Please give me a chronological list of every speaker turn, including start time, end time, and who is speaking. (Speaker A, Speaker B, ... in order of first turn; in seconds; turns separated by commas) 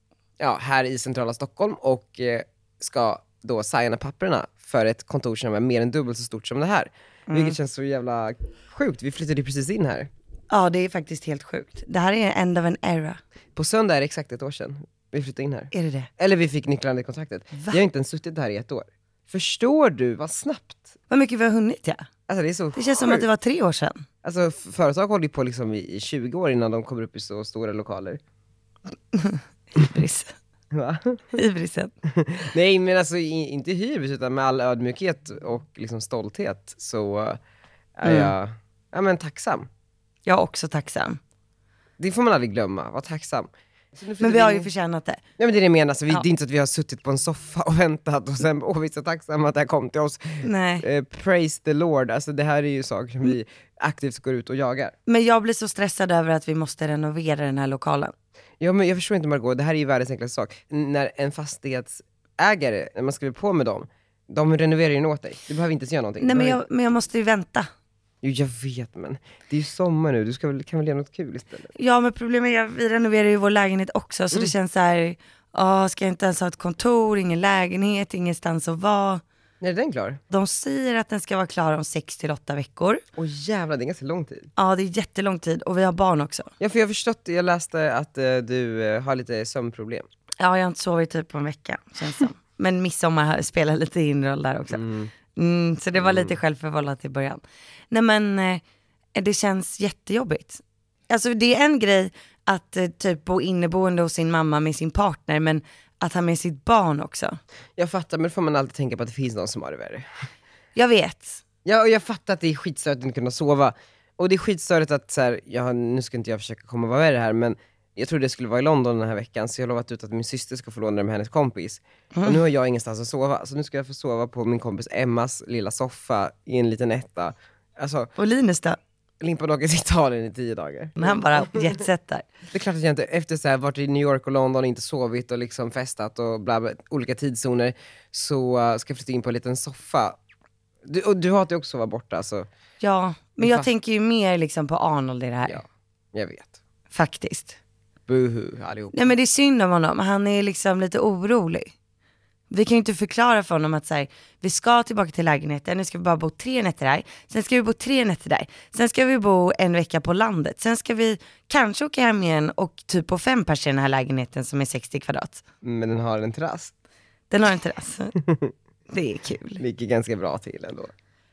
Speaker A: 0.4-10.1, Speaker B: 7.3-7.6, Speaker B: 10.5-13.2, Speaker A: 13.6-20.9, Speaker B: 15.7-16.1, Speaker B: 17.5-17.8, Speaker B: 21.1-22.1, Speaker A: 22.3-23.3, Speaker B: 22.8-24.0, Speaker A: 24.2-28.2, Speaker B: 29.1-30.3, Speaker A: 30.7-31.4, Speaker B: 31.3-31.9, Speaker A: 32.1-37.4, Speaker A: 38.0-39.7, Speaker B: 38.0-38.3, Speaker B: 40.3-41.2, Speaker A: 42.0-44.7, Speaker B: 44.2-45.2, Speaker A: 45.4-55.0, Speaker B: 50.4-50.9, Speaker B: 55.1-58.1, Speaker A: 58.6-66.6, Speaker B: 66.2-67.7, Speaker A: 68.2-71.7, Speaker B: 71.8-79.2, Speaker A: 79.6-80.2, Speaker B: 80.3-83.0, Speaker A: 83.2-84.5, Speaker B: 84.6-86.5, Speaker A: 86.6-90.1, Speaker B: 90.4-94.8, Speaker A: 94.7-95.1, Speaker B: 95.3-98.6, Speaker A: 96.0-96.4, Speaker B: 99.2-107.4, Speaker A: 107.8-110.1, Speaker B: 110.8-111.4, Speaker A: 111.7-128.1, Speaker B: 122.1-122.4, Speaker B: 128.2-128.8, Speaker A: 129.2-131.8, Speaker B: 131.0-132.3, Speaker A: 132.5-140.2, Speaker A: 140.8-142.5, Speaker B: 142.8-145.6, Speaker A: 143.4-143.7, Speaker A: 145.5-146.6, Speaker B: 146.9-147.6, Speaker A: 148.1-149.1, Speaker B: 148.9-151.7, Speaker B: 152.5-165.4, Speaker A: 165.6-166.7, Speaker B: 167.3-168.1, Speaker B: 168.9-169.6, Speaker A: 169.6-170.9